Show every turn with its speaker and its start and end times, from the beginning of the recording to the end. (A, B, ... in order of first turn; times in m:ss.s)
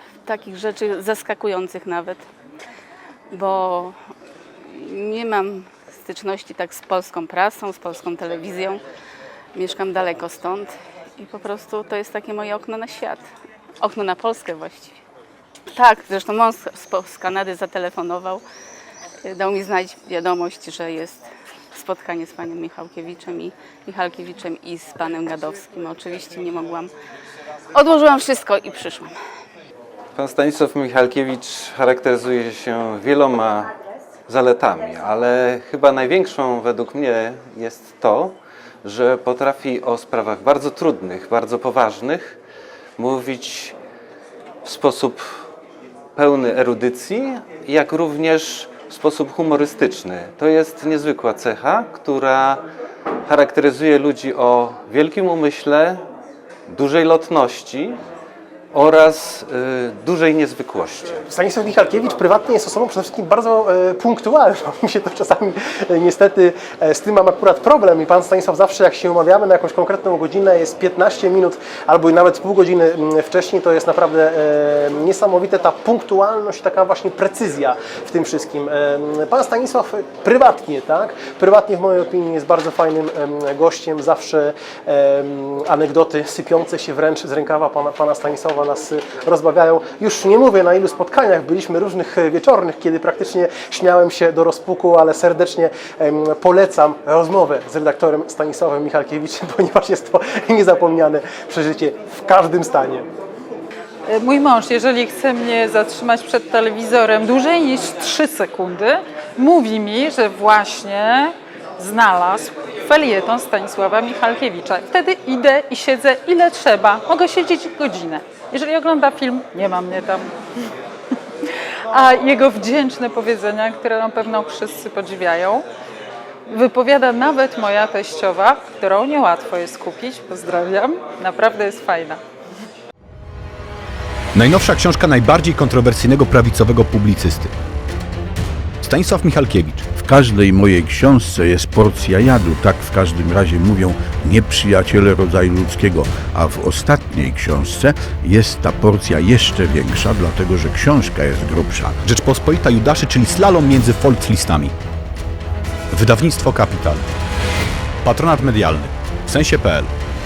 0:00.2-0:02.2 A
0:03.3-0:04.0 A
0:04.6-0:08.8 A
0:09.5-0:13.2 A
0:13.8-0:15.0 A
0:15.7-0:18.4 A
0:19.2-0:26.9 A
0:27.7-0:29.2 A
0:30.2-0:33.7 B
0:34.3-0:38.3 B
0:38.8-0:42.3 B
0:43.0-0:43.7 B
0:44.6-0:45.2 B
0:46.2-0:52.6 B
0:53.3-0:56.0 B
0:56.7-0:58.0 B
0:58.7-1:01.2 B
1:01.3-1:43.1 C
1:44.1-2:00.3 D
2:01.9-2:05.6 D
2:06.5-2:12.2 D
2:14.3-2:17.5 E
2:18.8-2:19.9 E
2:20.0-2:31.9 F
2:32.0-2:34.7 E
2:35.9-2:37.0 E
2:38.0-2:39.9 E